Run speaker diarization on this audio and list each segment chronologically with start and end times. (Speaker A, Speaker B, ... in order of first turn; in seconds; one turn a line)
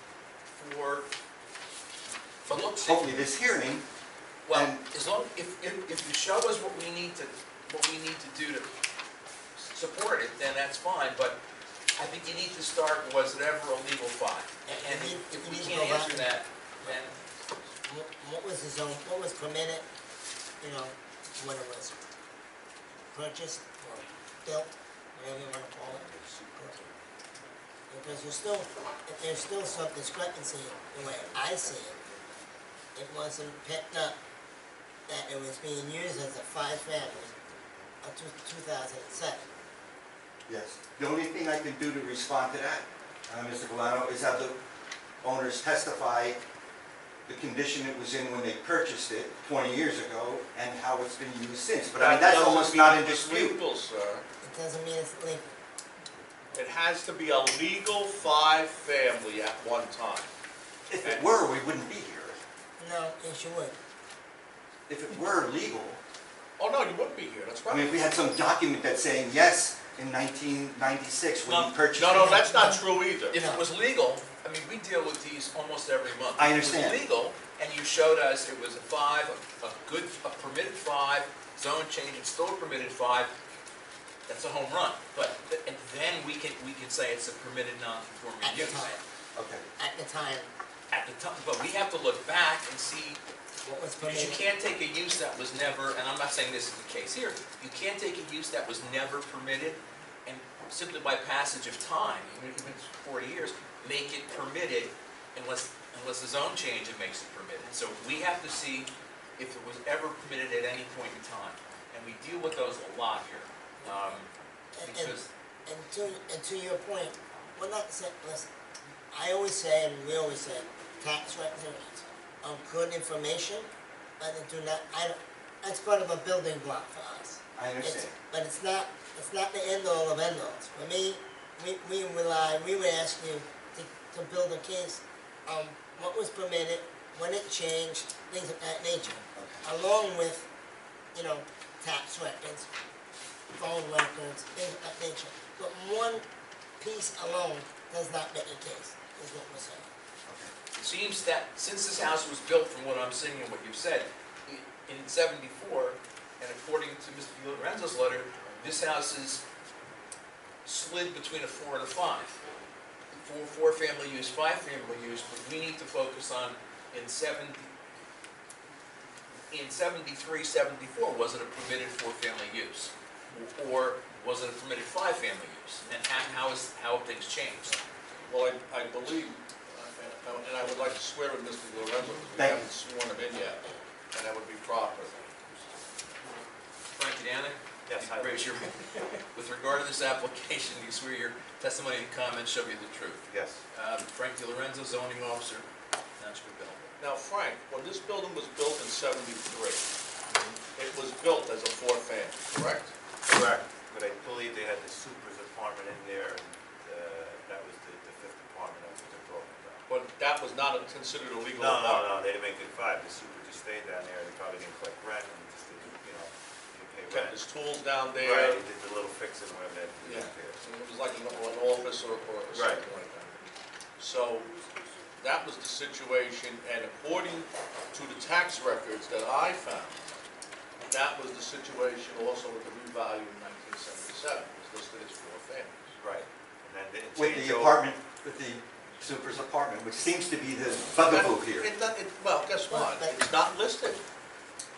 Speaker A: 0.5-1.1
Speaker A: 2.5-3.1
Speaker B: 2.8-3.8
Speaker A: 4.5-8.7
Speaker B: 4.5-4.8
Speaker A: 9.6-11.4
Speaker A: 12.0-17.2
Speaker C: 14.7-16.3
Speaker C: 17.8-19.9
Speaker C: 20.6-22.0
Speaker C: 23.1-26.8
Speaker C: 27.9-31.9
Speaker C: 33.0-34.1
Speaker C: 35.1-37.3
Speaker C: 38.0-39.4
Speaker B: 40.5-44.6
Speaker B: 45.2-46.4
Speaker B: 47.3-53.5
Speaker D: 52.0-54.2
Speaker C: 54.4-55.5
Speaker D: 56.6-60.3
Speaker B: 60.9-62.4
Speaker C: 62.8-63.8
Speaker B: 64.9-66.0
Speaker D: 66.6-67.9
Speaker B: 67.7-72.2
Speaker A: 71.4-71.8
Speaker D: 72.0-73.3
Speaker C: 72.0-73.7
Speaker A: 73.3-83.3
Speaker B: 76.4-77.0
Speaker A: 84.3-88.9
Speaker C: 88.4-89.0
Speaker B: 89.3-89.7
Speaker C: 89.8-90.5
Speaker A: 90.9-93.2
Speaker C: 93.6-94.4
Speaker A: 94.0-114.3
Speaker C: 114.7-118.5
Speaker A: 114.8-115.3
Speaker C: 119.1-123.7
Speaker C: 124.2-140.4
Speaker B: 127.6-128.2
Speaker B: 139.3-139.6
Speaker C: 141.1-142.7
Speaker C: 143.5-146.2
Speaker C: 146.8-149.9
Speaker B: 150.3-150.5
Speaker A: 150.8-159.4
Speaker A: 160.7-162.4
Speaker A: 163.1-167.7
Speaker A: 169.5-172.9
Speaker A: 173.5-177.8
Speaker D: 178.3-185.5
Speaker B: 182.4-182.7
Speaker A: 186.9-195.7
Speaker E: 187.9-188.5
Speaker E: 193.3-193.6
Speaker A: 196.2-196.9
Speaker D: 197.0-199.9
Speaker E: 200.3-200.6
Speaker D: 200.7-202.9
Speaker E: 203.3-209.9
Speaker D: 209.9-212.1
Speaker E: 211.5-217.4
Speaker D: 217.1-218.6
Speaker E: 218.1-220.6
Speaker D: 220.0-224.5
Speaker E: 222.5-222.8
Speaker D: 225.2-230.0
Speaker D: 230.8-235.8
Speaker E: 236.0-237.9
Speaker B: 237.2-241.7
Speaker D: 241.1-244.0
Speaker C: 242.7-243.2